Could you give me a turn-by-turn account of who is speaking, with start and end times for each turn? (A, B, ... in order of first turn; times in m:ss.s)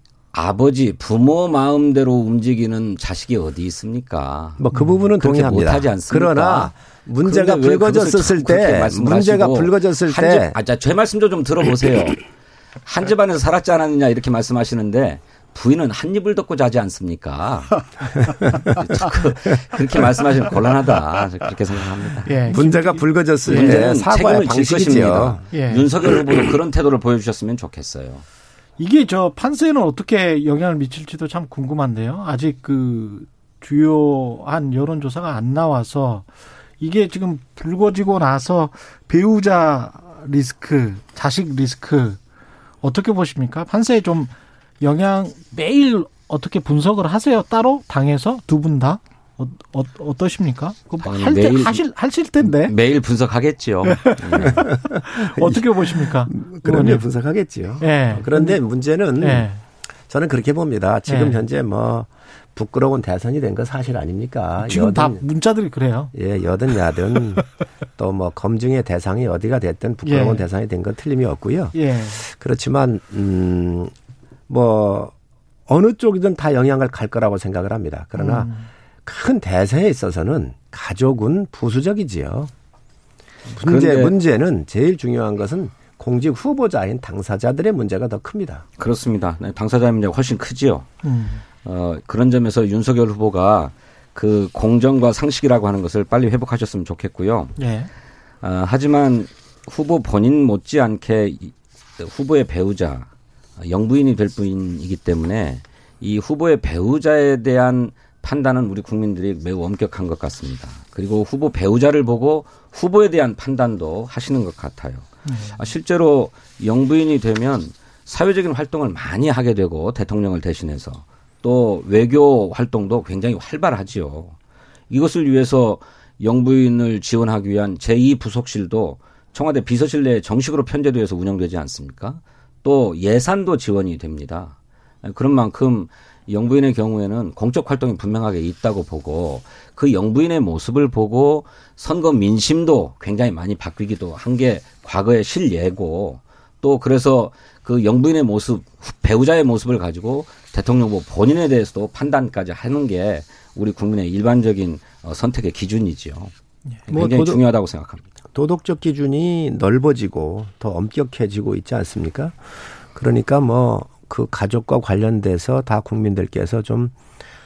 0:00.3-0:04.6 A
0:04.6-0:10.6 B
0:04.7-0:05.0 C
0:05.2-0:12.2 A
0:12.8-0:22.6 A
0:18.4-0:18.9 B
0:22.2-0:23.9 C
0:22.5-0:25.4 B
0:23.4-0:28.2 A
0:25.5-0:25.8 C
0:28.8-0:36.3 C
0:36.8-0:42.2 C
0:42.8-0:52.7 C
0:51.0-0:51.8 A
0:52.4-0:54.7 A
0:53.8-0:57.0 C
0:54.5-0:59.4 B
0:57.8-0:58.6 C
0:59.2-0:59.6 C
1:00.1-1:05.2 B
1:01.1-1:01.4 C
1:04.6-1:06.1 C
1:06.1-1:07.4 B
1:08.0-1:13.9 B
1:10.0-1:10.4 C
1:11.7-1:12.2 C
1:14.5-1:15.1 B
1:15.7-1:18.5 B
1:18.2-1:18.7 C
1:19.0-1:22.5 B
1:23.5-1:24.1 A
1:23.6-1:28.6 B
1:28.8-1:30.9 A
1:31.0-1:31.4 C
1:31.6-1:37.6 A
1:37.6-1:37.9 C
1:38.4-2:04.3 A
1:55.2-1:55.5 C
2:04.9-2:36.3 A
2:36.9-2:38.0 A
2:36.9-2:37.4 B
2:38.3-2:42.4 B
2:42.9-2:46.9 B